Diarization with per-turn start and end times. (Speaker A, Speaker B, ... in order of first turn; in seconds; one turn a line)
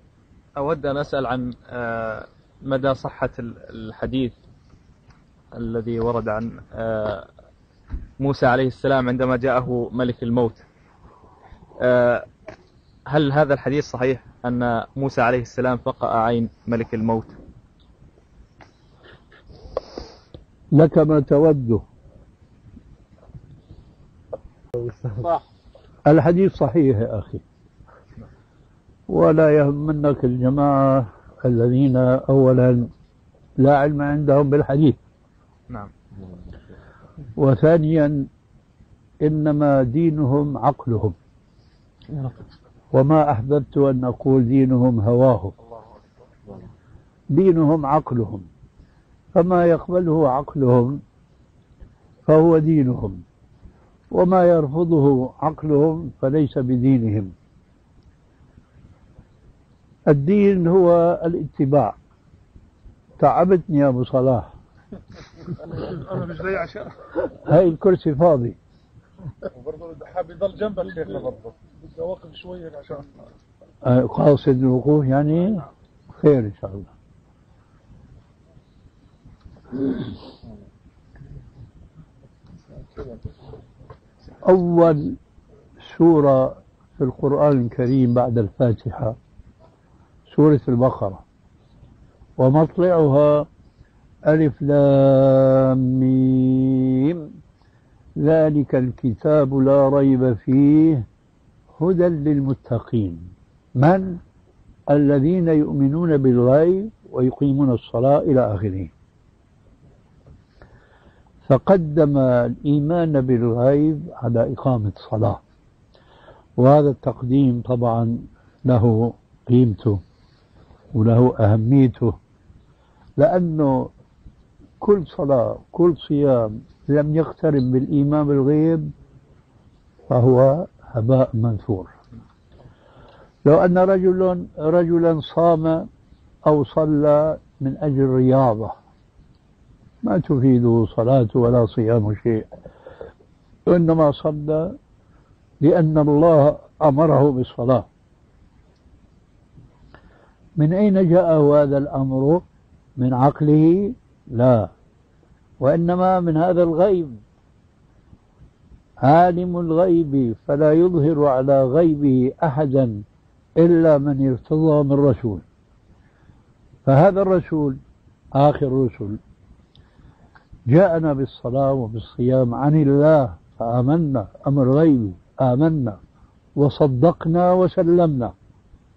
Speaker A: 0.6-4.3
Speaker A: 5.5-7.3
Speaker A: 8.2-10.6
Speaker A: 11.8-12.2
Speaker A: 13.1-17.4
Speaker B: 20.7-21.8
Speaker C: 24.8-25.3
Speaker B: 26.1-27.4
Speaker B: 29.1-32.9
Speaker B: 33.6-35.0
Speaker B: 37.4-38.3
Speaker B: 39.2-41.1
Speaker B: 42.9-45.5
Speaker B: 47.3-48.5
Speaker B: 49.4-51.0
Speaker B: 52.2-53.2
Speaker B: 54.1-57.3
Speaker B: 60.1-62.0
Speaker B: 63.2-64.5
Speaker C: 66.4-66.9
Speaker B: 67.2-68.6
Speaker C: 69.6-73.0
Speaker B: 73.8-76.9
Speaker B: 84.5-85.1
Speaker B: 85.8-89.2
Speaker B: 90.3-91.2
Speaker B: 92.4-93.5
Speaker B: 94.3-97.3
Speaker B: 98.2-101.0
Speaker B: 101.8-104.2
Speaker B: 104.9-108.9
Speaker B: 111.5-115.4
Speaker B: 116.6-120.0
Speaker B: 120.9-122.1
Speaker B: 123.2-123.9
Speaker B: 124.8-128.9
Speaker B: 130.1-131.9
Speaker B: 133.4-135.9
Speaker B: 136.4-138.7
Speaker B: 140.0-142.4
Speaker B: 143.7-144.7
Speaker B: 145.6-147.8
Speaker B: 150.6-152.4
Speaker B: 153.0-154.7
Speaker B: 155.6-157.2
Speaker B: 159.0-163.0
Speaker B: 163.6-165.4
Speaker B: 166.8-167.8
Speaker B: 168.3-169.2
Speaker B: 170.7-176.0
Speaker B: 176.6-178.3